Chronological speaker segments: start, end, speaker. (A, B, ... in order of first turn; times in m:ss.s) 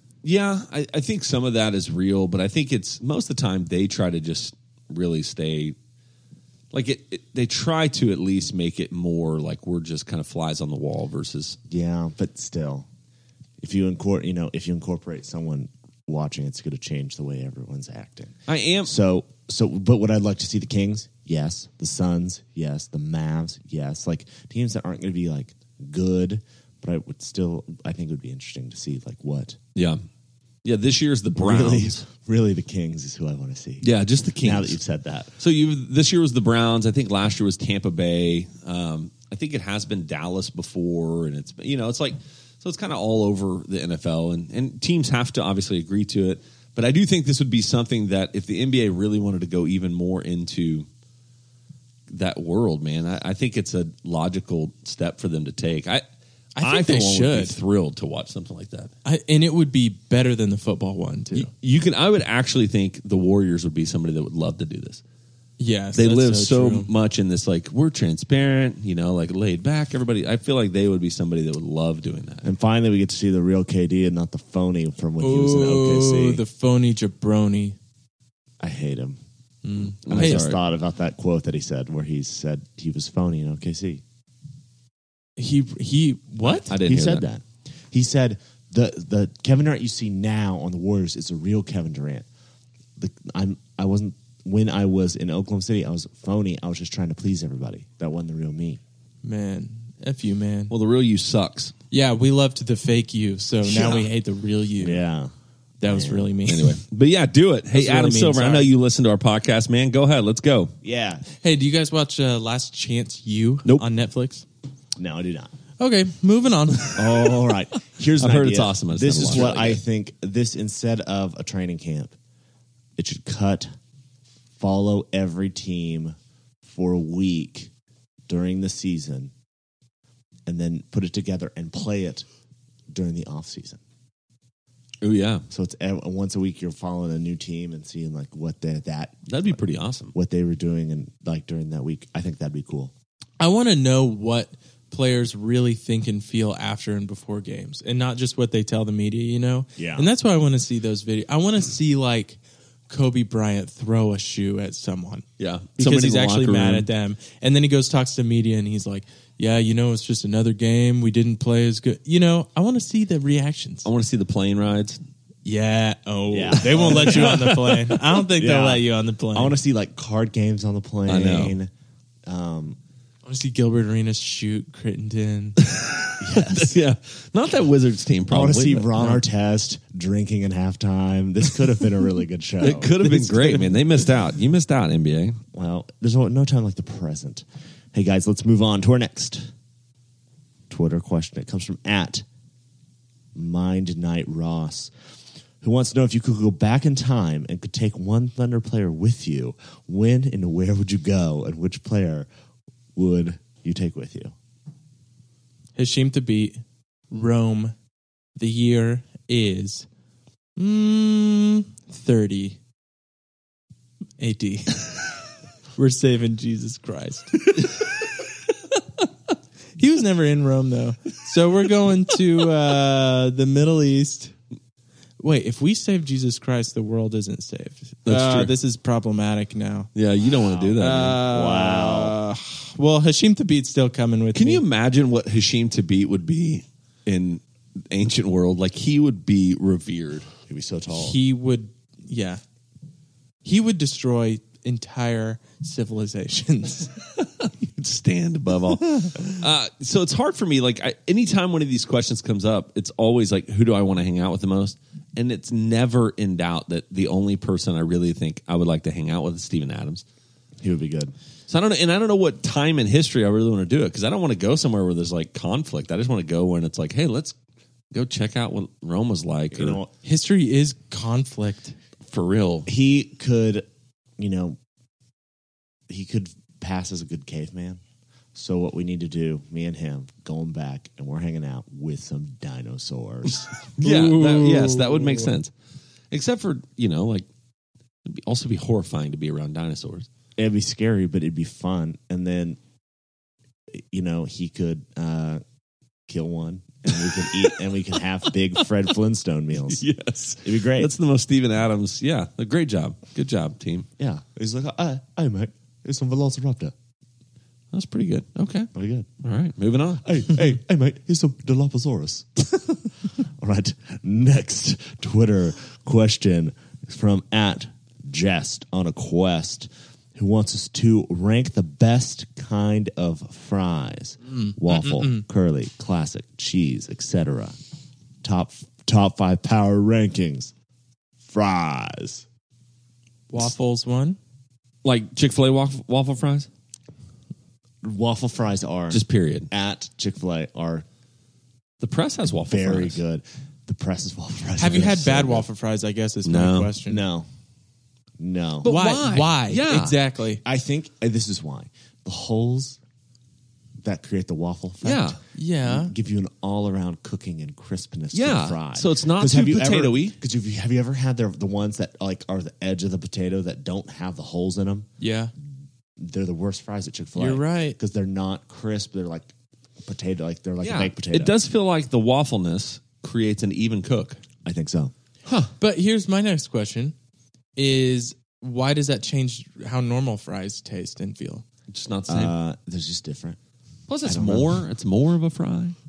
0:00.2-0:05.8 A
0:06.7-0:11.6 A
0:11.7-0:12.9 B
0:13.6-0:29.6 B
0:18.5-0:18.9 A
0:29.8-0:30.0 A
0:30.6-0:32.0 A
0:31.4-0:33.9 B
0:33.8-0:34.8 A
0:34.4-0:35.3 B
0:35.4-0:50.9 A
0:52.1-0:56.0 A
0:56.6-0:57.6 C
0:56.6-0:58.9 A
0:59.0-1:01.5 C
1:01.4-1:05.0 A
1:05.6-1:06.9 C
1:06.0-1:12.5 A
1:12.4-1:16.4 B
1:15.2-1:17.8 C
1:18.6-1:19.2 B
1:19.6-1:20.5 C
1:20.0-1:20.6 A
1:20.1-1:24.0 B
1:25.4-1:26.7 C
1:26.7-1:27.2 A
1:26.7-1:32.3 B
1:33.0-1:38.8 B
1:39.2-1:40.7 C
1:40.7-1:41.7 A
1:41.9-1:45.0 C
1:43.6-1:44.1 B
1:44.8-1:45.3 B
1:45.8-1:46.8 C
1:45.8-1:46.3 B
1:46.5-1:50.7 A
1:47.7-1:48.7 C
1:50.8-1:51.2 B
1:51.4-1:54.4 C
1:55.0-1:55.5 B
1:55.8-1:57.3 C
1:57.0-2:02.1 B
1:58.2-1:59.8 A
2:03.0-2:03.7 B
2:04.6-2:07.7 B
2:08.3-2:09.3 B
2:10.5-2:12.3 B
2:12.9-2:13.8 B
2:15.0-2:15.4 A
2:15.5-2:19.6 B
2:19.3-2:20.1 A
2:20.1-2:22.9 B
2:23.4-2:35.2 C
2:29.8-2:30.1 B
2:35.4-2:36.9 A
2:35.8-2:43.9 C
2:43.8-2:45.0 A
2:45.4-2:49.6 C
2:46.3-2:47.5 B
2:46.7-2:47.9 A
2:48.4-2:51.7 B
2:51.1-2:51.6 A
2:52.3-2:52.8 B
2:53.2-2:55.6 C
2:55.7-2:59.2 A
2:56.2-2:56.8 B
2:58.3-3:03.6 B
3:02.6-3:05.4 A
3:05.5-3:09.5 B
3:10.7-3:12.2 B
3:13.4-3:14.9 B
3:15.6-3:22.3 B
3:23.0-3:24.3 B
3:25.8-3:27.7 C
3:28.4-3:29.9 C
3:30.6-3:32.6 C
3:34.2-3:35.1 C
3:35.8-3:37.9 C
3:39.8-3:44.3 C
3:45.2-3:49.9 C
3:48.1-3:48.5 A
3:50.0-3:51.2 A
3:50.5-3:52.2 B
3:50.8-3:54.6 C
3:54.4-4:00.3 A
4:00.5-4:01.2 B
4:00.9-4:02.4 C
4:03.4-4:07.0 C
4:07.2-4:20.0 A
4:20.6-4:21.1 B
4:21.5-4:27.4 A
4:27.9-4:29.8 A
4:29.5-4:29.9 B
4:30.0-4:31.8 C
4:32.1-4:32.7 A
4:32.7-4:33.7 B
4:34.2-4:34.6 B
4:35.9-4:37.8 B
4:38.4-4:43.5 B
4:43.8-4:45.5 A
4:43.8-4:45.3 C
4:46.1-4:47.3 A
4:48.1-4:50.1 A
4:50.4-4:52.6 B
4:53.7-4:55.4 B
4:56.1-4:59.8 B
4:59.7-5:03.9 A
5:00.4-5:00.9 B
5:04.0-5:06.7 B
5:07.7-5:08.7 A
5:08.7-5:09.1 B
5:09.2-5:10.2 A
5:10.0-5:27.6 B
5:24.3-5:25.2 C
5:28.2-5:30.5 B
5:31.2-5:32.2 B
5:33.3-5:34.2 C
5:34.8-5:36.5 A
5:37.8-5:40.9 B
5:38.9-5:39.5 A
5:41.8-5:43.0 A
5:42.4-5:45.5 B
5:44.6-5:47.0 C
5:46.2-5:46.7 A
5:46.9-5:47.3 B
5:48.2-5:48.7 B
5:48.6-5:50.0 A
5:48.6-5:50.4 C
5:50.4-5:52.8 B
5:53.8-6:04.9 B
5:54.8-5:55.2 A
5:55.3-5:55.9 C
5:58.1-6:00.2 A
6:05.0-6:05.3 C
6:06.0-6:09.3 B
6:07.2-6:07.8 C
6:09.8-6:11.4 B
6:10.6-6:14.2 A
6:14.4-6:14.9 B
6:15.3-6:15.5 A
6:15.6-6:17.0 C
6:17.6-6:21.4 C
6:21.7-6:22.3 A
6:22.1-6:23.4 B
6:23.9-6:25.8 A
6:24.0-6:24.6 B